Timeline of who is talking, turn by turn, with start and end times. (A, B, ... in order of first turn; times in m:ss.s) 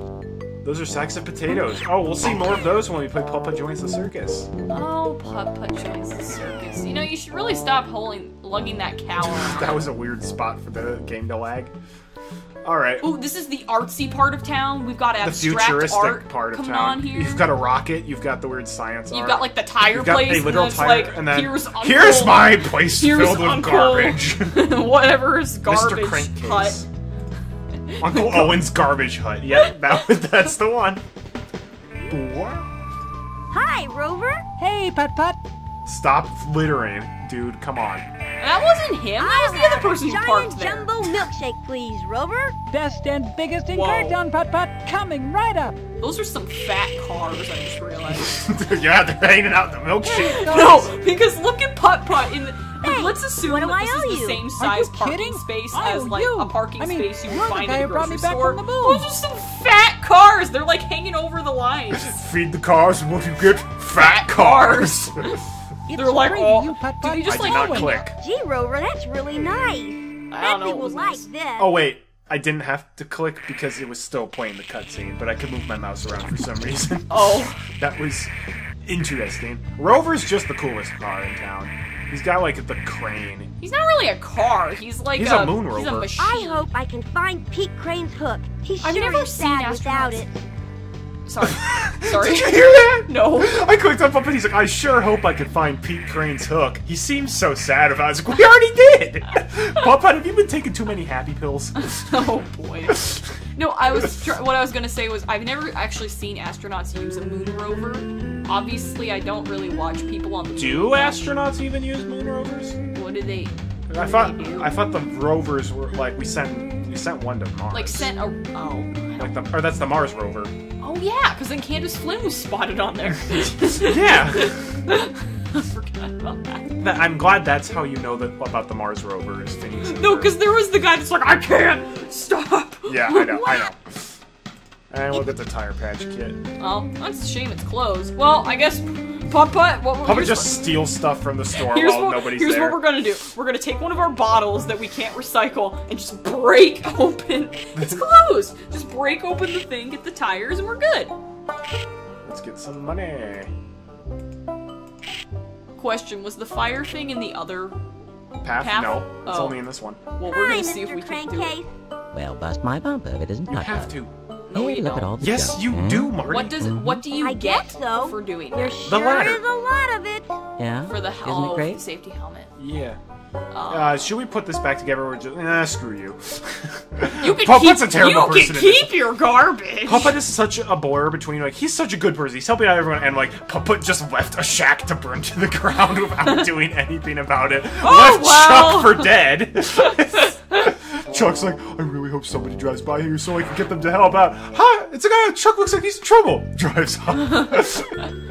0:00.6-0:04.5 A
0:04.7-0:09.8 B
0:09.2-0:11.7 A
0:12.6-0:13.1 A
0:13.0-0:17.5 B
0:15.2-0:24.7 A
0:19.1-0:26.8 B
0:25.6-0:26.9 A
0:27.9-0:28.7 B
0:28.0-0:31.0 A
0:29.5-0:30.0 B
0:32.1-0:32.6 A
0:33.5-0:34.4 C
0:34.6-0:35.4 D
0:35.8-0:38.1 A
0:38.4-0:41.0 B
0:39.2-0:42.6 C
0:42.7-0:45.8 D
0:43.7-0:44.2 B
0:46.0-0:48.4 B
0:48.1-0:50.9 A
0:50.0-1:02.2 B
0:50.1-0:50.8 D
0:52.8-0:54.5 C
0:54.6-0:59.1 D
1:01.9-1:05.2 A
1:04.0-1:05.4 B
1:05.9-1:07.9 B
1:06.0-1:08.1 D
1:07.2-1:08.2 A
1:08.1-1:11.8 C
1:10.3-1:11.3 B
1:11.6-1:17.1 A
1:17.1-1:17.6 B
1:17.8-1:18.3 A
1:18.8-1:23.5 A
1:23.6-1:26.7 B
1:25.1-1:26.1 A
1:26.2-1:30.4 C
1:28.8-1:30.2 B
1:31.2-1:33.6 B
1:31.4-1:41.8 A
1:41.8-1:51.3 B
1:50.6-1:52.8 A
1:52.9-1:54.8 B
1:53.9-1:58.1 A
1:57.7-1:59.4 B
1:59.2-2:00.5 A
2:00.8-2:06.7 B
2:03.8-2:04.8 A
2:06.8-2:10.4 A
2:09.8-2:13.7 B
2:12.9-2:13.8 A
2:14.9-2:16.4 A
2:16.6-2:20.9 B
2:20.0-2:22.8 A
2:21.5-2:31.1 B
2:27.7-2:28.1 A
2:32.2-2:33.5 A
2:35.8-2:37.8 B
2:38.4-2:40.0 A
2:38.6-2:39.6 B
2:40.1-2:41.6 B
2:40.2-2:41.7 C
2:42.1-2:44.0 E
2:43.5-2:44.1 A
2:44.5-2:45.2 B
2:44.5-2:47.0 E
2:45.2-2:46.6 A
2:46.2-2:48.8 B
2:47.1-2:50.3 C
2:48.8-2:49.4 A
2:50.6-2:51.8 E
2:50.9-2:52.5 B
2:52.6-2:53.0 A
2:53.5-2:54.1 B
2:53.7-2:59.0 A
2:57.2-3:00.2 B
2:59.8-3:18.0 A
3:07.8-3:09.2 B
3:17.2-3:18.1 B